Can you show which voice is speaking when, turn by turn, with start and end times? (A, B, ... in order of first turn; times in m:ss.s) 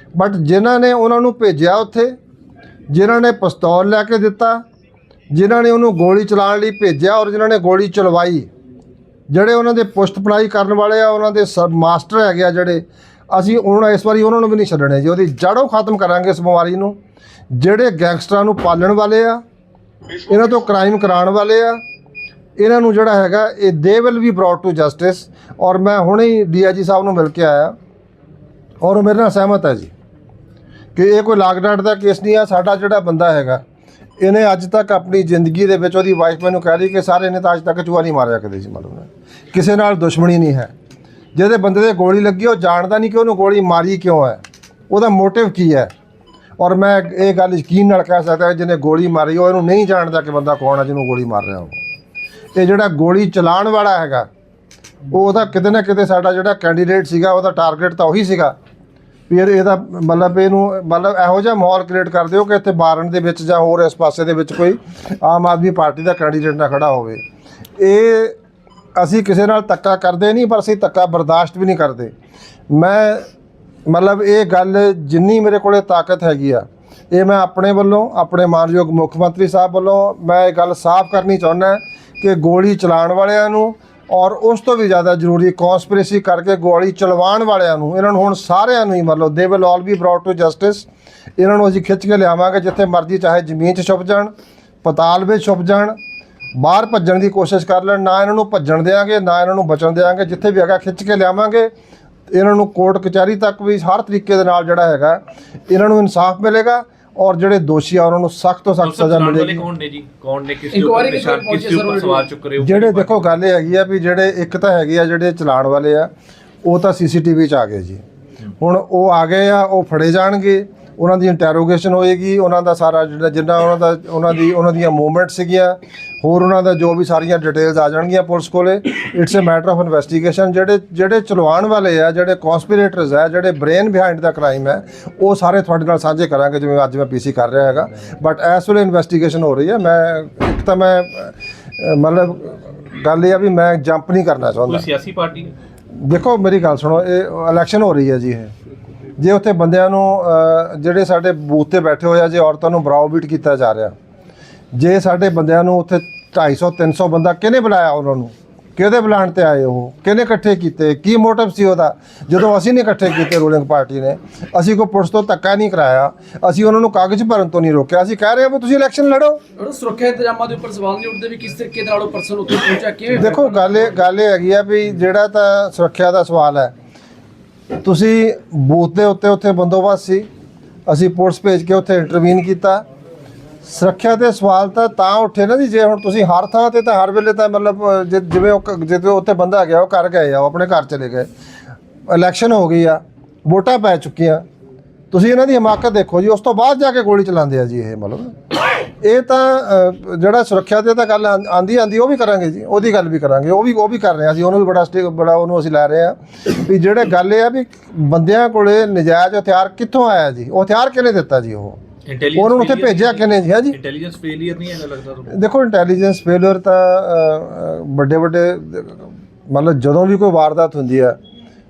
0:00.2-0:02.2 A
0:02.9-0:04.6 A
0:05.3-0:08.5 A
0:09.3-0:17.0 A
0:17.5-0:19.4 A
0:20.3-0:21.8 A
0:22.6-0:27.7 A
0:28.8-0:29.9 A
0:30.9-0:33.6 A
0:34.2-0:40.7 A
0:41.3-0:45.9 A
0:46.6-0:51.8 A
0:52.5-0:54.3 A
0:55.1-0:58.5 A
0:59.3-1:07.2 A
1:07.8-1:08.4 A
1:09.0-1:12.1 A
1:12.7-1:13.2 A
1:13.8-1:30.9 A
1:31.4-1:34.3 A
1:34.8-1:36.0 A
1:36.6-1:41.7 A
1:42.3-1:49.6 A
1:48.8-1:53.3 B
1:50.7-1:52.3 C
1:52.6-1:56.1 A
1:56.6-1:58.0 A
1:58.6-2:24.9 A
2:24.6-2:25.5 B
2:25.9-2:28.5 A
2:29.2-2:33.9 A
2:34.7-2:49.4 A
2:49.6-2:53.8 C
2:53.1-2:56.7 A
2:57.8-3:00.3 A
3:00.9-3:02.8 A
3:03.6-3:11.3 A
3:12.1-3:14.4 A
3:15.1-3:18.3 A
3:19.0-3:31.8 A
3:32.0-3:35.4 B
3:32.3-3:33.8 A
3:35.3-3:41.2 A